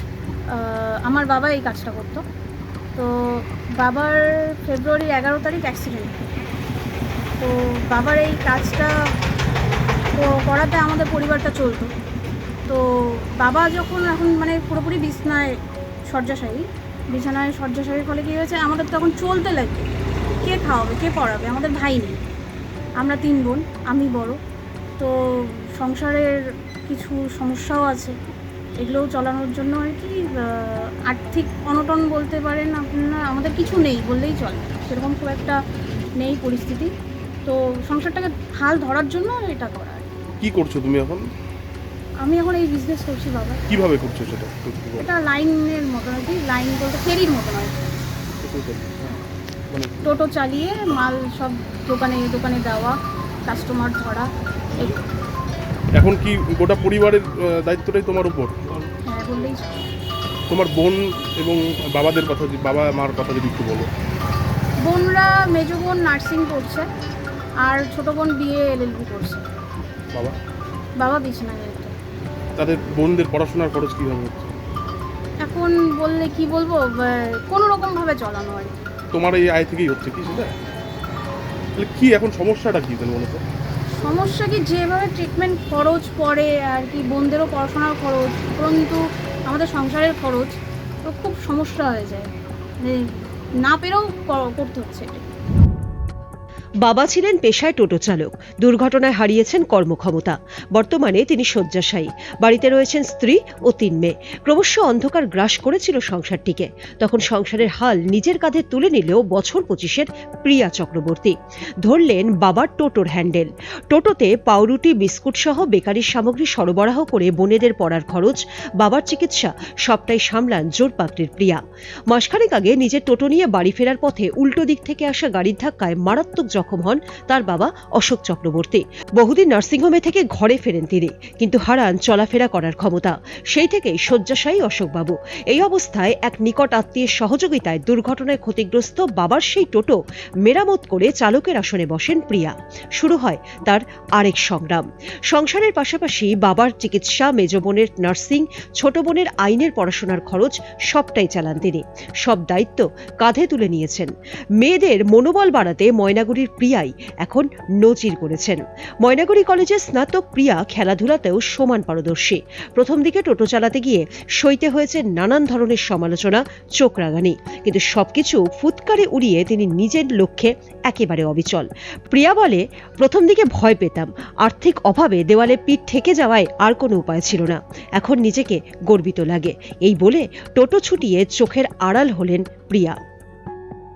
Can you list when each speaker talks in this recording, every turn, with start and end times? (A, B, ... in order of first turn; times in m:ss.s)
0:00.5-0:02.2 A
0:03.0-0:06.2 A
0:07.4-0:08.9 A
0:10.2-0:11.9 A
0:12.7-0:19.9 A
0:20.4-0:22.2 A
0:23.0-0:24.4 A
0:25.0-0:28.1 A
0:28.8-0:35.6 A
0:36.2-0:36.9 A
0:37.4-0:40.1 A
0:40.4-0:41.3 B
0:42.2-0:43.6 A
0:43.7-0:45.1 B
0:45.0-0:47.9 A
0:48.4-0:49.2 B
0:49.7-0:50.1 B
0:50.0-0:54.9 A
0:56.0-0:58.9 B
0:59.0-0:59.8 A
1:00.5-1:03.9 B
1:04.8-1:06.9 A
1:07.6-1:09.4 A
1:11.0-1:11.9 A
1:12.6-1:14.5 B
1:15.4-1:18.8 A
1:19.1-1:20.5 B
1:21.8-1:23.4 B
1:24.0-1:32.3 A
1:32.8-1:33.1 A
1:33.6-1:35.3 A
1:36.8-3:03.0 C